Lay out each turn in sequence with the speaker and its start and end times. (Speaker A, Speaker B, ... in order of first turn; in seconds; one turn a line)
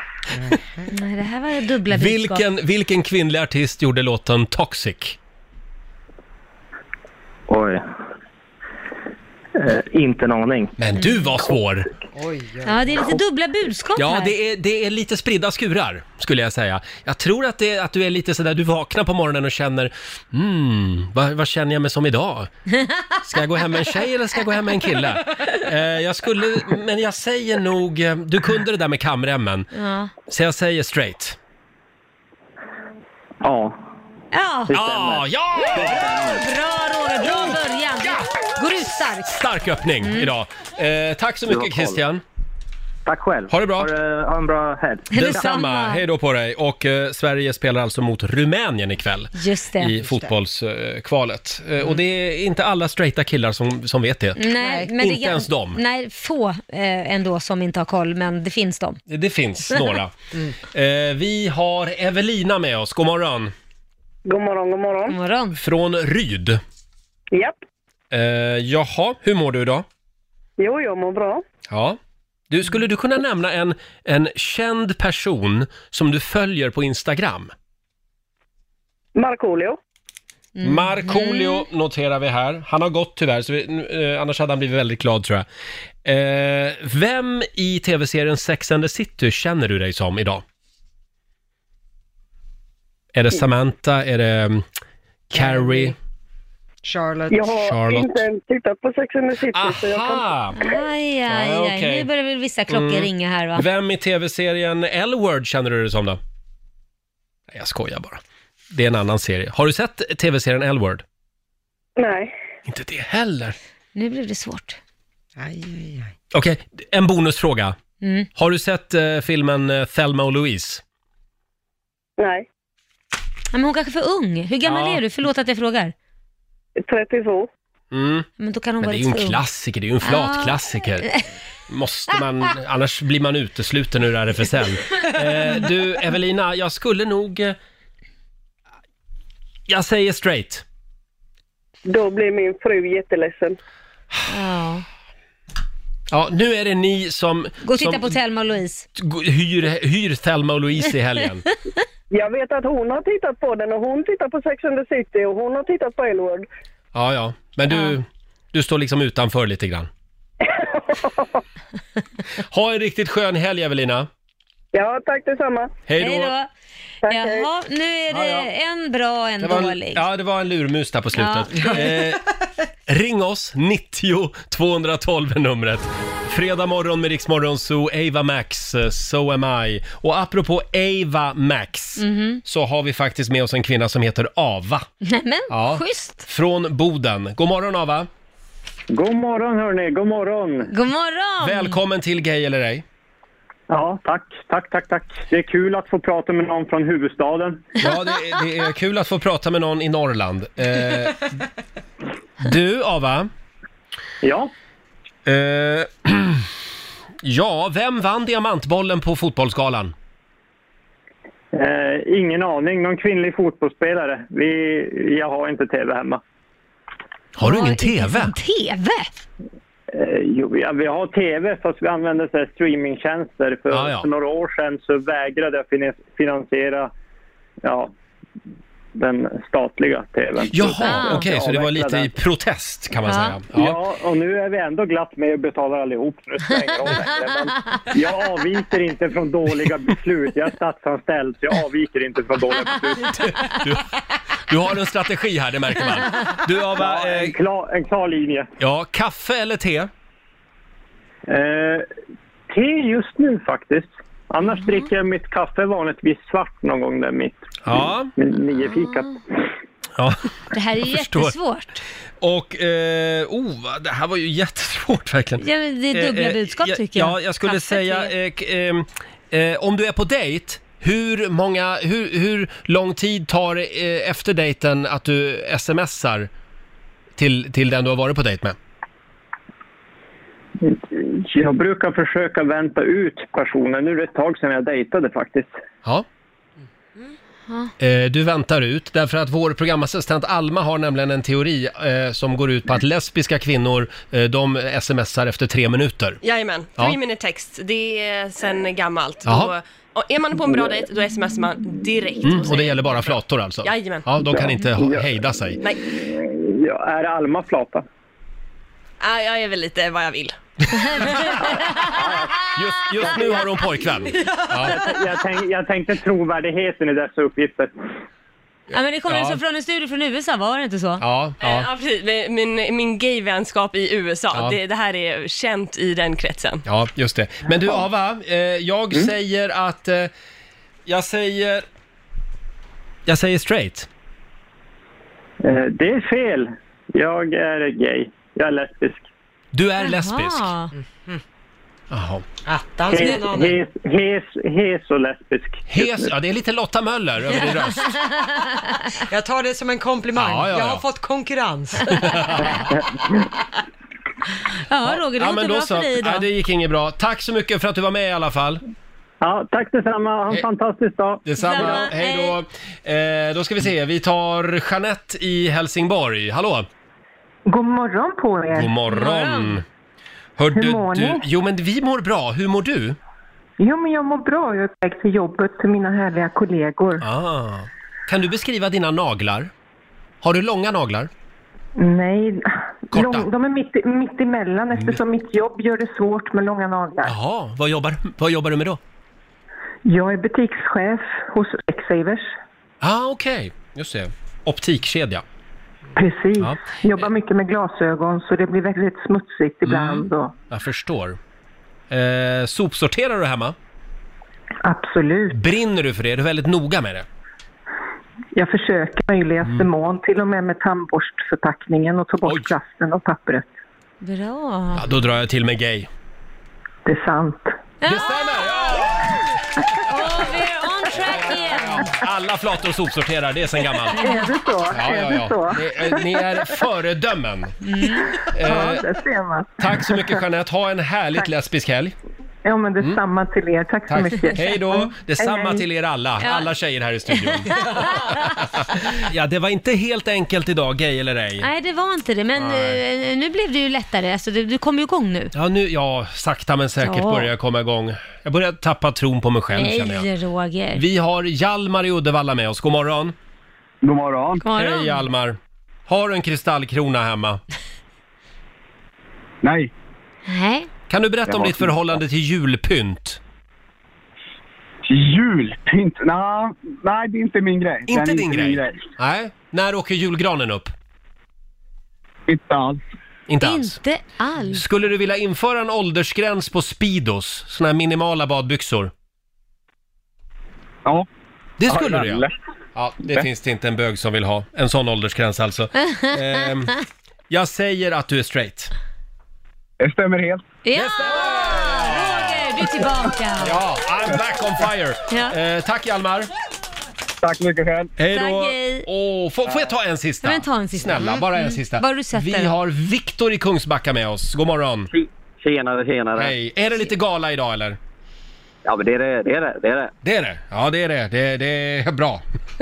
Speaker A: 0.9-2.4
Speaker B: 1.9-5.2
Speaker C: 7.5-7.8
Speaker C: 9.6-10.7
Speaker B: 10.8-11.9
Speaker D: 12.2-12.8
Speaker A: 12.6-14.3
Speaker B: 14.0-22.5
Speaker B: 23.2-29.7
Speaker A: 29.7-30.1
Speaker B: 30.3-31.4
Speaker C: 33.4-33.8
Speaker A: 34.3-34.8
Speaker C: 34.7-35.2
Speaker B: 34.7-36.2
Speaker A: 35.6-39.4
Speaker B: 39.2-42.2
Speaker A: 40.0-40.3
Speaker E: 41.6-41.9
Speaker C: 43.1-45.1
Speaker B: 43.5-43.9
Speaker A: 45.1-46.0
Speaker B: 45.1-55.8
Speaker A: 49.4-50.0
Speaker A: 54.4-59.0
Speaker B: 59.1-60.1
Speaker B: 60.7-63.5
Speaker F: 64.3-65.2
Speaker A: 65.1-65.6
Speaker B: 65.6-66.6
Speaker F: 67.3-67.6
Speaker B: 68.1-69.8
Speaker F: 70.6-71.4
Speaker B: 71.7-72.0
Speaker B: 72.5-77.5
Speaker F: 79.2-79.8
Speaker A: 80.6-81.6
Speaker B: 80.6-85.5
Speaker B: 86.0-90.4
Speaker B: 93.1-94.7
Speaker B: 95.3-96.0
Speaker D: 95.4-95.9
Speaker D: 96.8-97.4
Speaker F: 97.3-100.8
Speaker B: 97.5-98.2
Speaker B: 99.5-100.6
Speaker A: 100.6-103.7
Speaker B: 101.3-102.1
Speaker B: 102.7-106.2
Speaker B: 107.5-108.2
Speaker B: 108.7-111.0
Speaker F: 112.0-112.3
Speaker B: 112.7-113.6
Speaker A: 114.0-114.8
Speaker D: 115.4-116.1
Speaker B: 116.3-117.8
Speaker A: 118.0-118.3
Speaker B: 118.4-120.8
Speaker F: 122.2-122.5
Speaker A: 123.5-125.9
Speaker B: 124.6-125.0
Speaker F: 126.8-127.5
Speaker B: 127.9-128.3
Speaker A: 128.4-129.4
Speaker B: 128.8-131.1
Speaker A: 130.0-131.2
Speaker B: 131.7-137.6
Speaker B: 139.7-140.6
Speaker F: 141.9-143.6
Speaker A: 144.3-144.8
Speaker B: 146.1-148.2
Speaker A: 147.7-148.9
Speaker B: 149.0-151.4
Speaker F: 152.1-156.5
Speaker B: 156.9-159.9
Speaker A: 157.7-158.0
Speaker F: 160.6-161.2
Speaker B: 162.5-164.1
Speaker F: 164.7-165.7
Speaker B: 165.9-166.3
Speaker A: 166.0-166.5
Speaker F: 167.0-167.5
Speaker A: 167.1-170.1
Speaker B: 168.1-168.5
Speaker B: 169.4-172.2
Speaker A: 171.2-172.0
Speaker B: 172.9-184.9
Speaker A: 182.0-182.4
Speaker A: 185.1-186.3
Speaker B: 185.5-188.1
Speaker G: 188.9-190.7
Speaker A: 190.7-191.8
Speaker B: 191.4-192.8
Speaker G: 193.7-197.7
Speaker B: 197.8-201.3
Speaker B: 202.4-203.3
Speaker G: 204.2-204.5
Speaker B: 205.3-206.4
Speaker B: 207.2-209.9
Speaker G: 211.5-216.2
Speaker B: 217.4-218.3
Speaker A: 217.4-219.1
Speaker G: 219.9-226.9
Speaker B: 223.7-224.1
Speaker G: 227.6-227.9
Speaker G: 229.0-232.1
Speaker B: 230.5-233.8
Speaker A: 230.8-231.3
Speaker A: 233.1-233.4
Speaker G: 233.5-243.1
Speaker B: 243.0-243.9
Speaker B: 244.5-247.4
Speaker G: 246.8-248.5
Speaker B: 248.6-249.9
Speaker G: 251.3-251.9
Speaker G: 252.5-257.4
Speaker B: 257.6-258.1
Speaker G: 258.2-259.1
Speaker A: 258.7-259.1
Speaker A: 260.5-261.8
Speaker B: 260.8-261.3
Speaker B: 262.2-276.3
Speaker A: 265.4-268.1
Speaker B: 277.2-278.6
Speaker G: 280.6-285.5
Speaker B: 287.8-296.2
Speaker H: 296.2-304.1
Speaker B: 299.2-299.5
Speaker B: 302.2-305.6
Speaker G: 306.0-307.9
Speaker H: 309.0-310.4
Speaker A: 310.8-311.5
Speaker B: 312.5-314.8
Speaker G: 314.6-317.7
Speaker A: 318.7-321.0
Speaker B: 319.1-319.4
Speaker B: 321.0-321.7
Speaker H: 321.4-326.6
Speaker B: 324.3-324.6
Speaker B: 326.6-330.1
Speaker B: 330.9-331.6
Speaker B: 333.1-333.9
Speaker G: 335.4-339.1
Speaker B: 339.5-340.5
Speaker A: 339.8-340.7
Speaker B: 341.9-342.2
Speaker D: 342.5-343.5
Speaker G: 342.9-345.9
Speaker B: 345.7-347.9
Speaker A: 347.5-348.9
Speaker D: 349.1-351.8
Speaker B: 350.1-350.9
Speaker B: 351.8-352.6
Speaker A: 354.7-356.3
Speaker B: 354.9-358.6
Speaker G: 359.2-361.2
Speaker B: 361.2-366.7
Speaker A: 361.4-362.4
Speaker I: 367.5-368.7
Speaker B: 368.5-369.6
Speaker A: 368.9-369.6
Speaker B: 370.4-373.0
Speaker I: 370.5-371.3
Speaker I: 373.6-377.1
Speaker B: 377.0-379.5
Speaker B: 380.2-381.1
Speaker I: 381.8-387.2
Speaker B: 382.9-383.3
Speaker B: 384.7-385.0
Speaker B: 387.0-388.8
Speaker I: 389.9-392.3
Speaker B: 392.8-395.2
Speaker I: 395.9-400.3
Speaker B: 396.4-397.1
Speaker B: 399.6-401.2
Speaker B: 401.9-403.6
Speaker I: 404.6-405.4
Speaker B: 405.3-407.1
Speaker I: 408.4-413.5
Speaker B: 412.3-412.6
Speaker A: 414.0-414.9
Speaker B: 414.8-415.9
Speaker I: 416.9-417.5
Speaker A: 417.8-418.5
Speaker B: 417.9-419.2
Speaker A: 419.9-421.9
Speaker B: 420.9-424.1
Speaker A: 424.0-424.3
Speaker I: 424.0-426.2
Speaker B: 424.7-427.6
Speaker A: 427.6-428.1
Speaker B: 428.3-428.9
Speaker I: 428.3-430.2
Speaker B: 429.6-431.9
Speaker I: 432.4-435.6
Speaker B: 433.9-441.5
Speaker A: 436.2-436.5
Speaker A: 437.1-438.4
Speaker A: 441.4-445.3
Speaker B: 442.4-442.8
Speaker B: 445.3-450.1
Speaker A: 446.8-447.3
Speaker A: 449.6-450.8
Speaker B: 450.8-453.1
Speaker J: 453.8-454.4
Speaker A: 454.4-455.0
Speaker B: 454.6-457.4
Speaker J: 459.4-459.7
Speaker A: 460.3-460.7
Speaker B: 460.9-463.2
Speaker J: 461.3-461.7
Speaker J: 464.9-468.8
Speaker B: 467.9-470.7
Speaker J: 472.3-472.8
Speaker B: 473.3-473.8
Speaker A: 473.4-474.6
Speaker B: 474.5-478.9
Speaker B: 481.6-486.8
Speaker J: 481.7-482.3
Speaker A: 485.9-486.4
Speaker B: 487.3-488.7
Speaker J: 489.8-490.4
Speaker A: 490.6-493.6
Speaker B: 490.8-492.5
Speaker B: 493.4-496.3
Speaker A: 495.1-495.4
Speaker J: 497.2-497.9
Speaker B: 498.0-504.9
Speaker A: 498.1-498.9
Speaker A: 500.2-502.5
Speaker E: 504.9-506.3
Speaker B: 506.2-507.8
Speaker E: 508.6-509.9
Speaker B: 510.0-512.2